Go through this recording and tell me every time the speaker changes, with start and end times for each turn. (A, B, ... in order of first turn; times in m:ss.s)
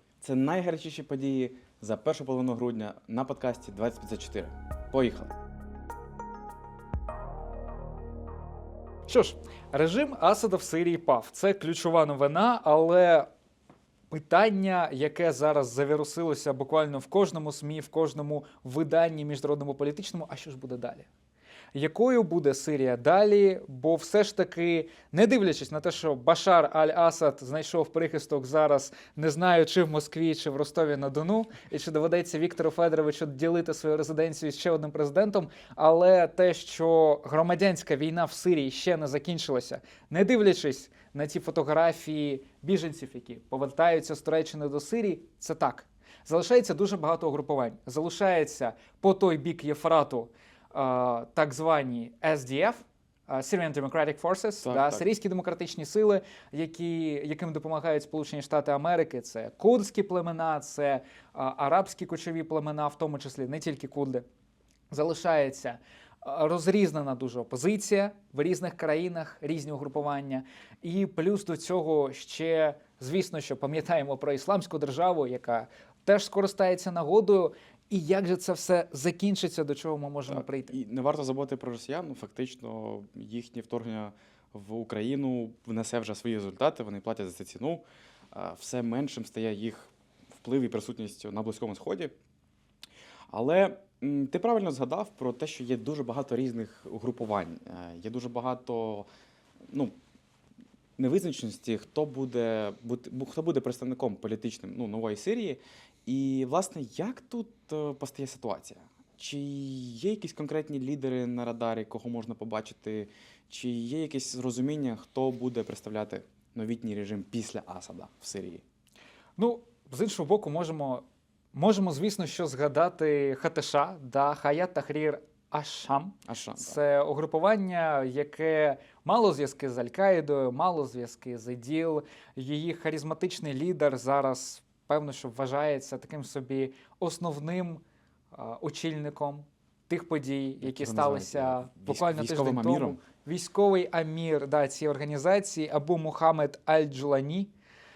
0:00.2-0:05.4 A
0:09.1-0:13.3 B
0:14.1-0:21.1 B
0:21.8-1:04.3 B
0:54.6-0:55.0 A
1:04.9-1:20.8 B
1:20.3-1:32.2 A
1:33.3-1:39.1 A
1:39.7-1:40.0 A
1:41.0-1:58.6 A
1:59.4-2:27.5 B
2:06.3-2:06.8 A
2:20.6-2:23.0 A